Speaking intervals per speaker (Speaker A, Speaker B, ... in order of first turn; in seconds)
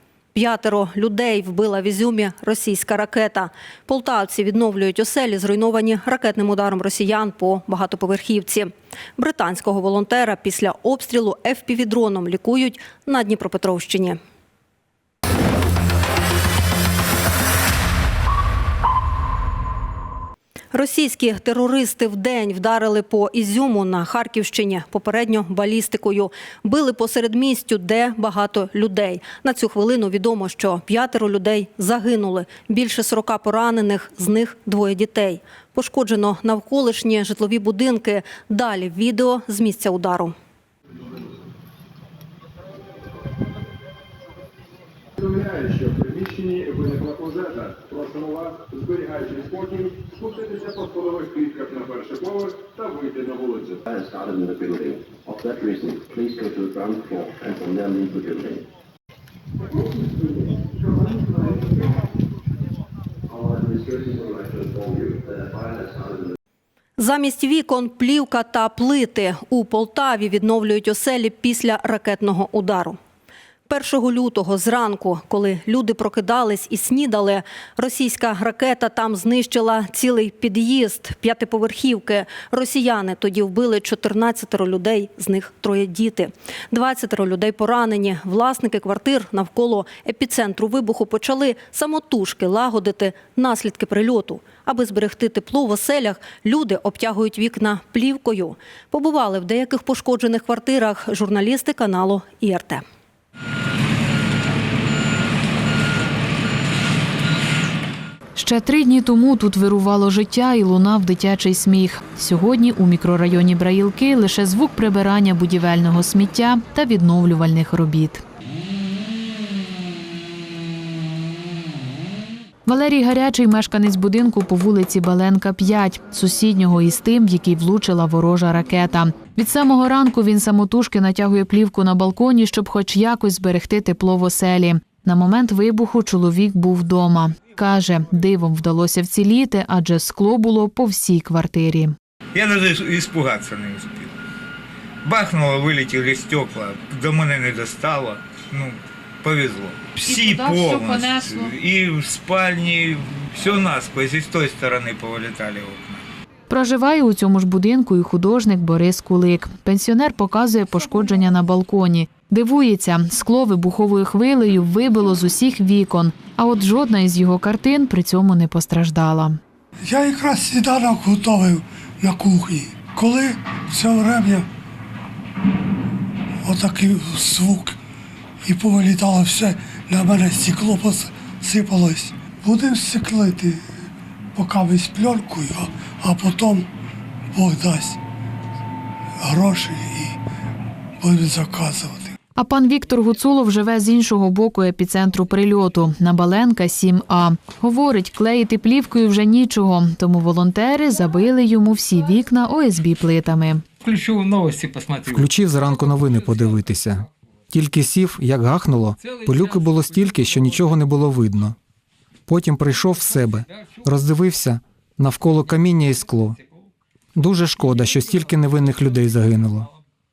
Speaker A: 0.3-14.2, 20.7-40.4, 67.0-73.0, 73.7-102.8
Speaker B: 45.2-53.6
Speaker C: 53.9-58.6, 63.4-66.2
Speaker D: 108.4-118.2, 122.7-141.9, 150.0-151.6, 156.5-169.4, 192.4-203.6
Speaker E: 142.3-144.1, 145.1-156.0, 203.8-205.3
Speaker F: 169.9-174.5, 176.5-177.8, 178.5-183.6, 184.4-186.7, 187.3-188.0, 189.2-190.2, 191.0-192.1
Speaker G: 206.7-207.0, 207.6-208.9, 209.7-210.2, 210.8-211.5, 212.3-213.4, 213.9-216.3, 217.2-217.6, 219.2-219.6